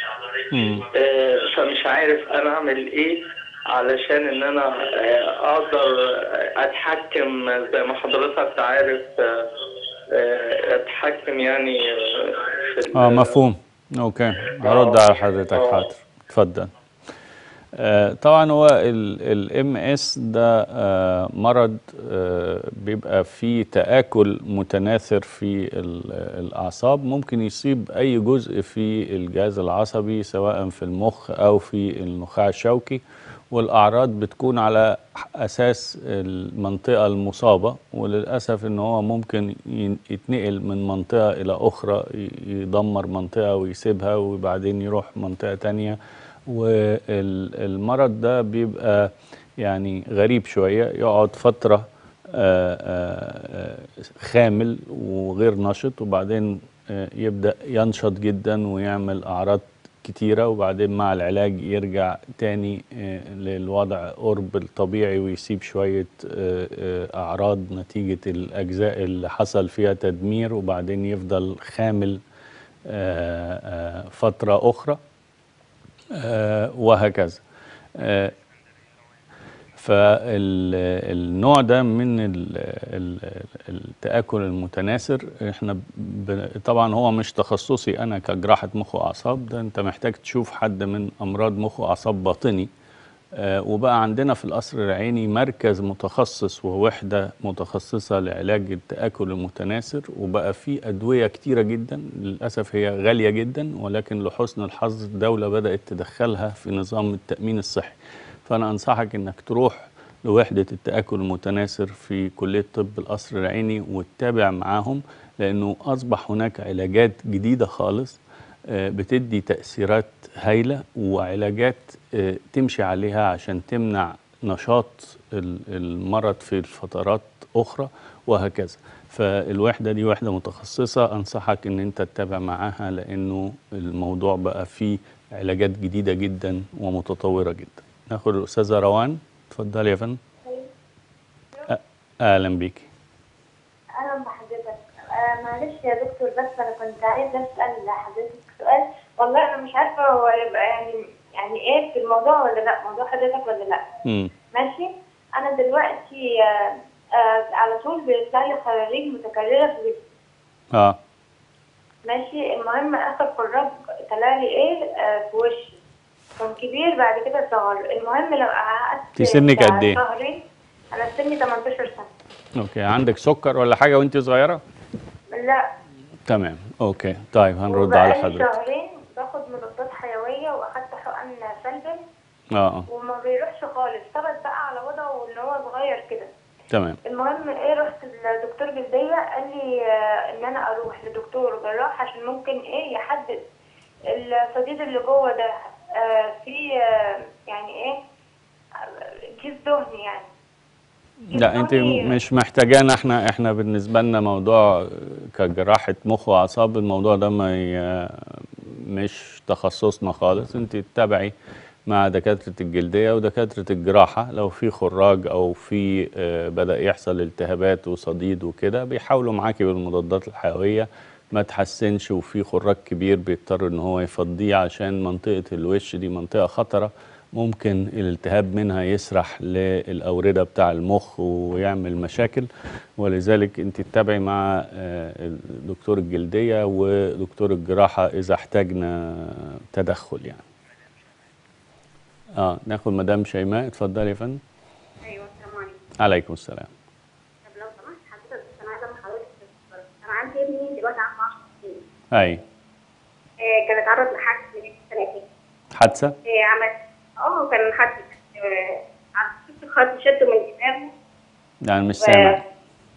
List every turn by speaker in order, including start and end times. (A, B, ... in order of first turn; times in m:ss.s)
0:00.5-0:00.8 A
0:00.9-0:03.2 B
0:03.7-0:09.5 B
0:10.1-0:13.4 B
0:12.9-0:16.7 A
0:14.6-0:15.9 B
0:17.7-0:46.0 A
0:46.5-1:12.2 A
1:12.8-1:15.0 A
1:16.1-1:17.4 A
1:18.0-1:18.3 A
1:19.8-1:32.7 A
1:33.4-1:48.0 A
1:48.5-2:20.2 A
2:21.7-2:22.9 A
2:24.0-2:33.8 C
2:34.0-2:34.3 A
2:34.5-2:40.0 C
2:42.0-2:45.8 C
2:46.4-2:50.4 C
2:49.2-2:50.0 A
2:50.9-2:52.1 C
2:52.6-2:54.6 A
2:55.3-2:55.6 C
2:56.3-2:58.5 A
2:57.7-3:02.0 C
3:02.5-3:02.8 A
3:02.9-3:06.3 C
3:06.7-3:07.0 A
3:07.0-3:09.6 C
3:10.3-3:13.4 C
3:14.1-3:15.5 C
3:16.0-3:18.0 C
3:19.4-3:20.3 C
3:21.3-3:31.3 A
3:21.3-3:22.1 C
3:31.9-3:52.5 A
3:53.0-4:00.4 A
4:02.4-4:04.4 A
4:05.0-4:05.8 D
4:06.0-4:06.7 A
4:07.4-4:11.8 D
4:12.1-4:12.4 A
4:13.4-4:15.2 D
4:15.8-4:16.1 A
4:16.2-4:20.9 D
4:21.6-4:22.4 A
4:22.0-4:22.4 D